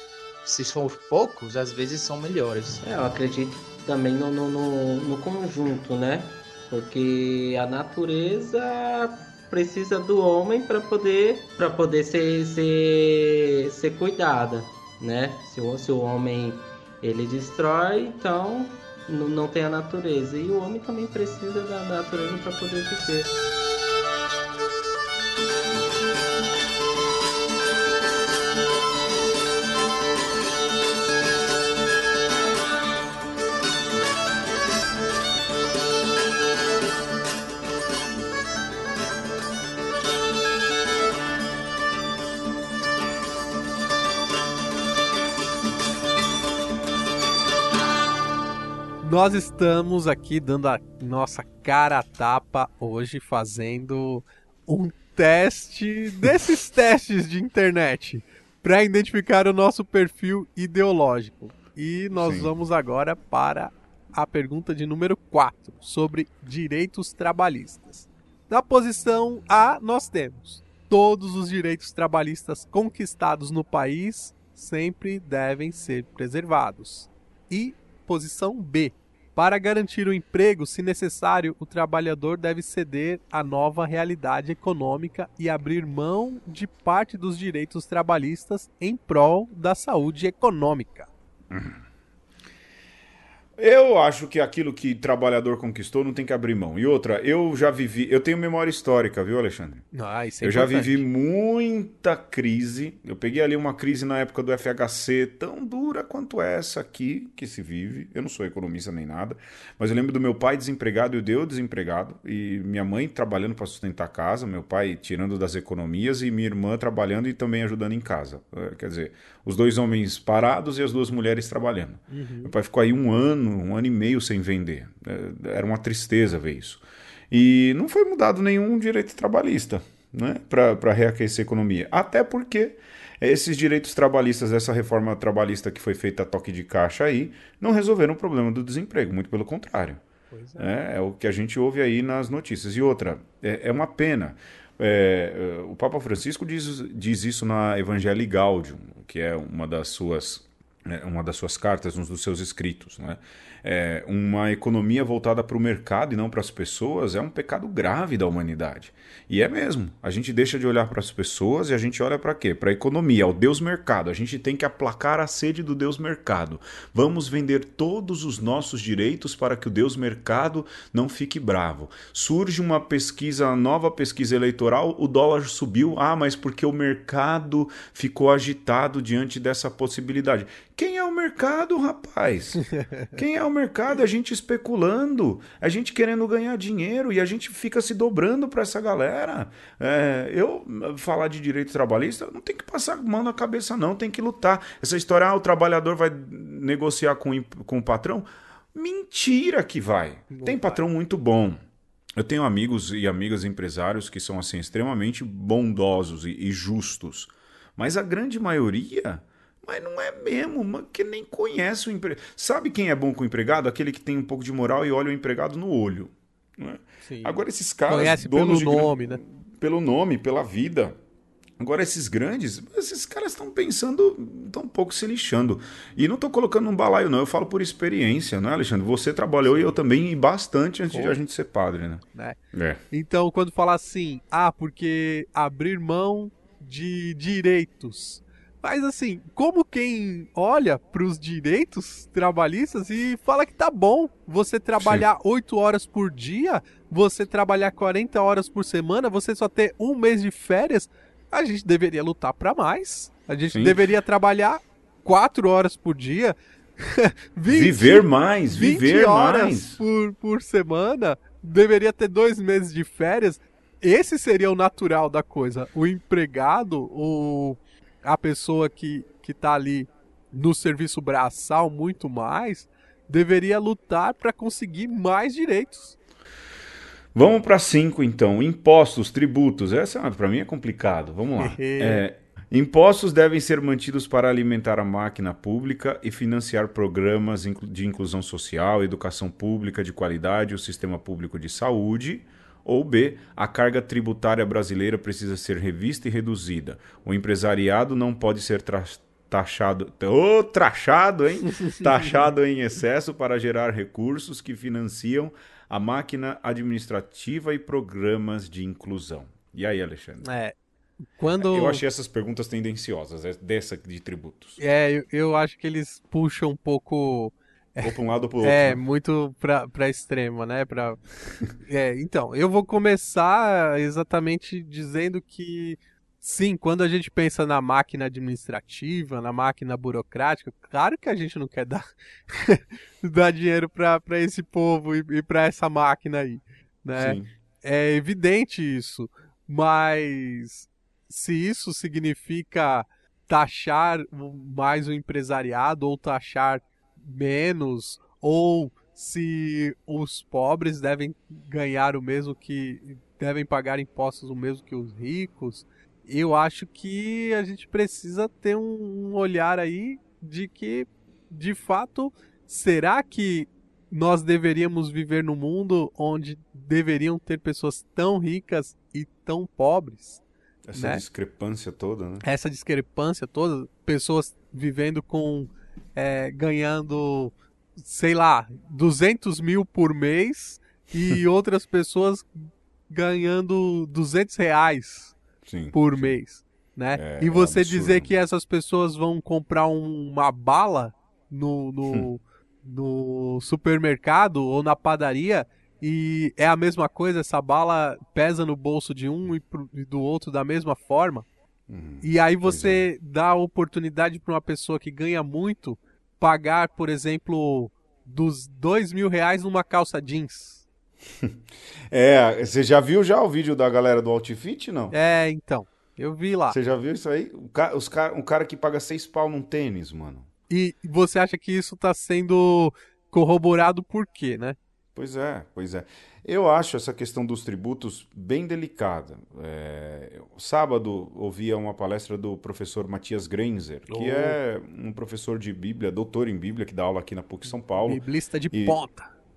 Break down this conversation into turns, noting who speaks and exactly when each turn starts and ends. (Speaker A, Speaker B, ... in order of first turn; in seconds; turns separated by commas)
Speaker A: 0.4-2.8, Speaker B: 2.8-23.3, Speaker C: 49.0-91.1, Speaker D: 62.1-62.5, Speaker D: 91.5-91.8, Speaker D: 93.6-99.9, Speaker C: 99.9-101.0, Speaker D: 100.4-140.0, Speaker C: 122.1-122.5, Speaker C: 140.3-140.7, Speaker D: 140.6-201.6, Speaker C: 182.8-183.1, Speaker C: 200.3-200.8, Speaker D: 202.2-221.0, Speaker C: 217.0-219.2, Speaker D: 221.6-232.0, Speaker C: 229.4-229.8, Speaker C: 230.9-231.2, Speaker D: 232.5-232.8, Speaker C: 232.9-275.9, Speaker D: 244.8-245.0, Speaker D: 253.5-253.8, Speaker D: 257.5-259.8, Speaker D: 277.1-310.3, Speaker C: 281.4-282.0, Speaker C: 310.2-311.8, Speaker D: 311.4-314.6, Speaker C: 314.6-321.0, Speaker D: 317.8-318.8, Speaker C: 321.6-370.2, Speaker D: 336.9-337.3, Speaker D: 370.6-372.2, Speaker C: 370.8-371.0, Speaker C: 372.2-385.1, Speaker D: 385.4-386.1, Speaker C: 385.7-401.3, Speaker D: 386.9-388.1, Speaker D: 401.7-402.9, Speaker C: 402.0-410.6, Speaker D: 411.9-414.9, Speaker C: 414.9-416.6, Speaker D: 416.5-420.3, Speaker C: 420.5-424.6, Speaker D: 424.9-438.0, Speaker C: 433.9-434.4, Speaker C: 437.9-439.1, Speaker D: 438.5-438.8